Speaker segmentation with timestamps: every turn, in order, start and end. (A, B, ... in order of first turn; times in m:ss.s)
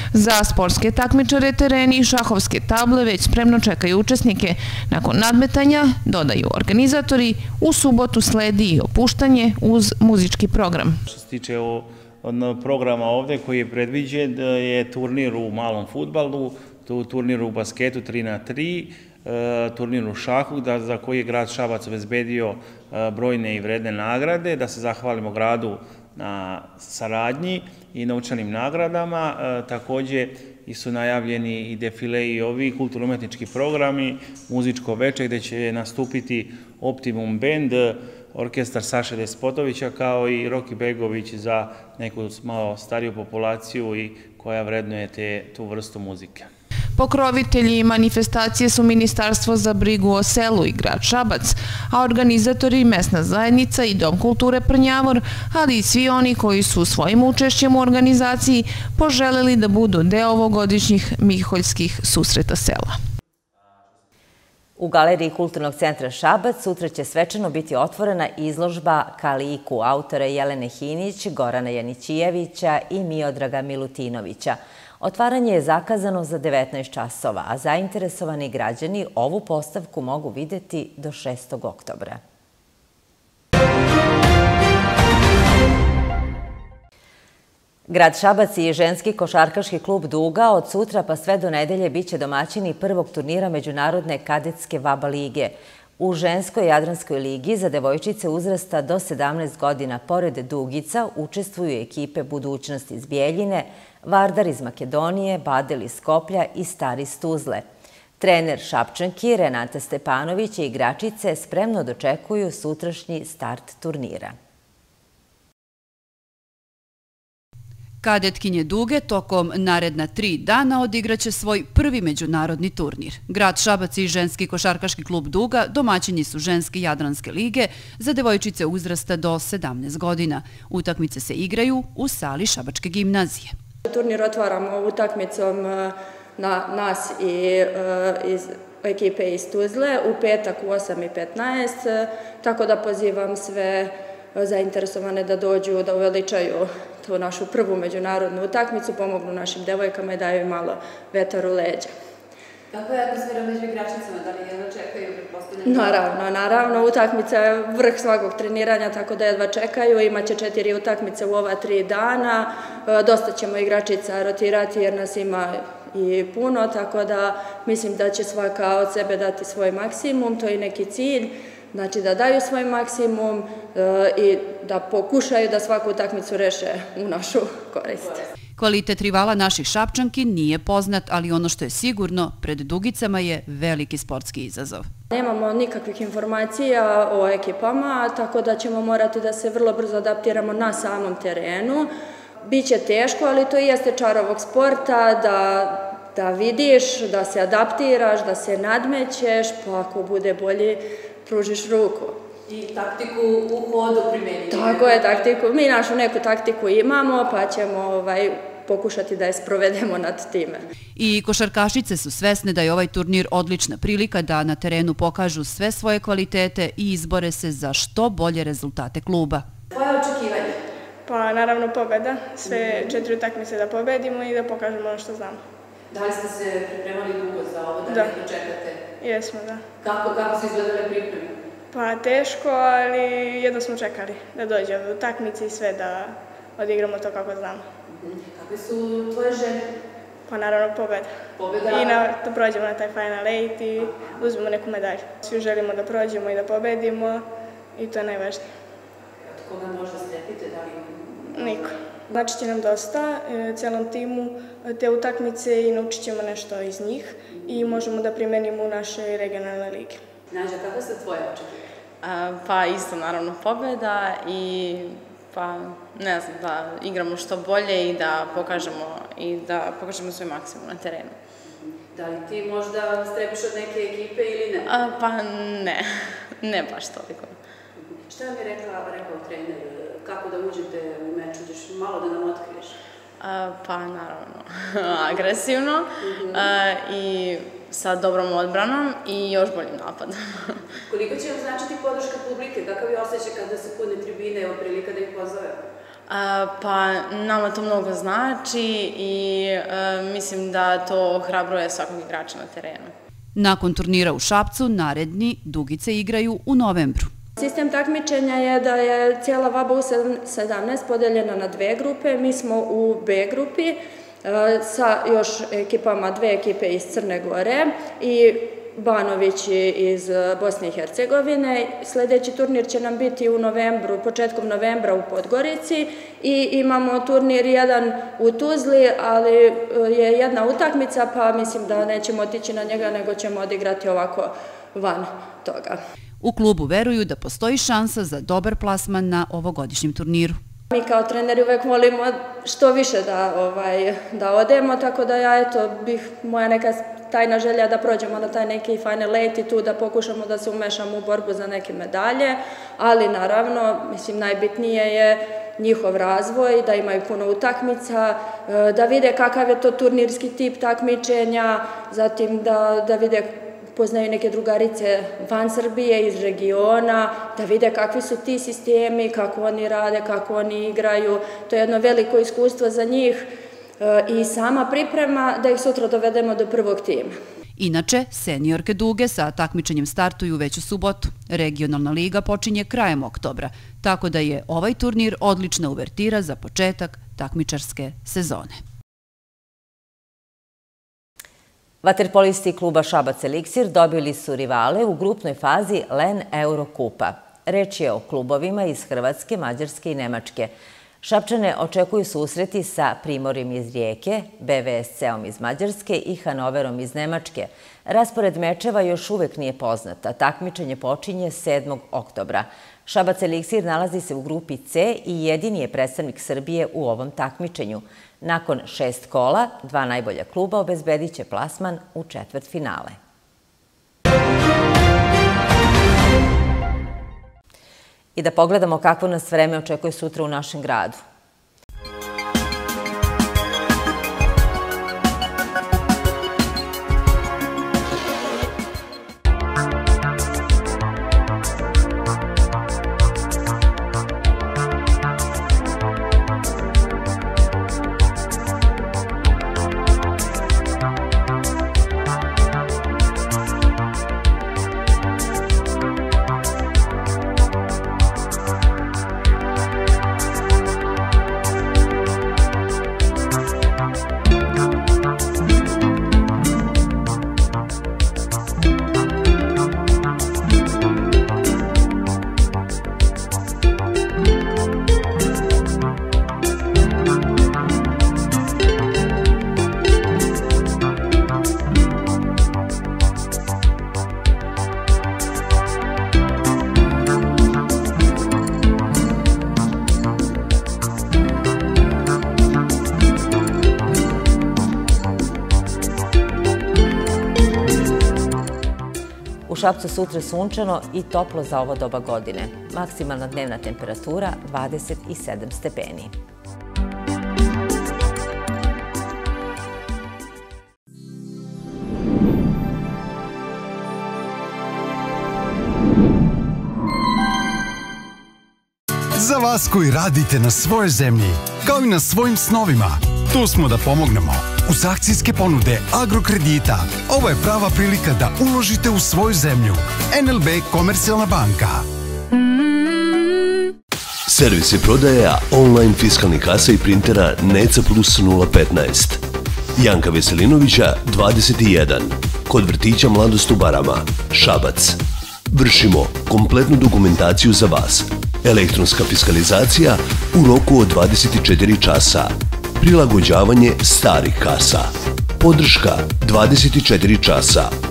0:00.1-0:11.0 A
0:11.0-0:46.5 B
0:47.0-1:03.0 A
1:04.8-1:22.2 C
1:27.9-1:47.6 C
1:48.2-1:54.4 C
1:58.0-2:13.6 D
2:13.8-2:31.9 E
2:32.7-2:36.8 F
2:35.6-2:58.3 E
2:58.6-3:04.9 D
3:05.1-3:11.9 E
3:12.4-3:22.2 E
3:22.5-3:25.2 F
3:24.5-3:30.6 E
3:31.0-3:39.4 D
3:39.7-3:40.6 F
3:41.1-3:45.4 G
3:42.4-3:43.0 F
3:45.9-3:48.8 F
3:47.9-3:48.2 G
3:49.0-3:49.6 G
3:49.8-3:51.4 F
3:51.7-3:57.7 G
3:57.9-3:59.7 F
4:00.3-4:01.1 G
4:01.4-4:02.0 F
4:01.6-4:08.5 G
4:09.2-4:12.1 F
4:11.3-4:20.0 G
4:20.3-4:21.7 F
4:22.0-4:31.2 H
4:31.5-4:34.7 F
4:34.6-4:37.4 H
4:37.8-4:42.8 F
4:43.2-4:50.7 H
4:46.0-4:46.5 F
4:50.9-4:55.6 F
4:56.1-5:02.9 H
5:03.3-5:07.1 D
5:07.4-5:35.8 E
5:36.2-5:40.4 D
5:40.7-6:17.1 E
6:17.6-6:28.6 D
6:31.8-6:40.5 C
6:41.0-7:03.0 C
7:08.1-7:11.0 C
8:19.5-8:26.1 C
8:39.2-8:51.8 I
8:54.3-8:59.2 J
8:59.8-9:05.0 J
9:05.5-9:17.7 J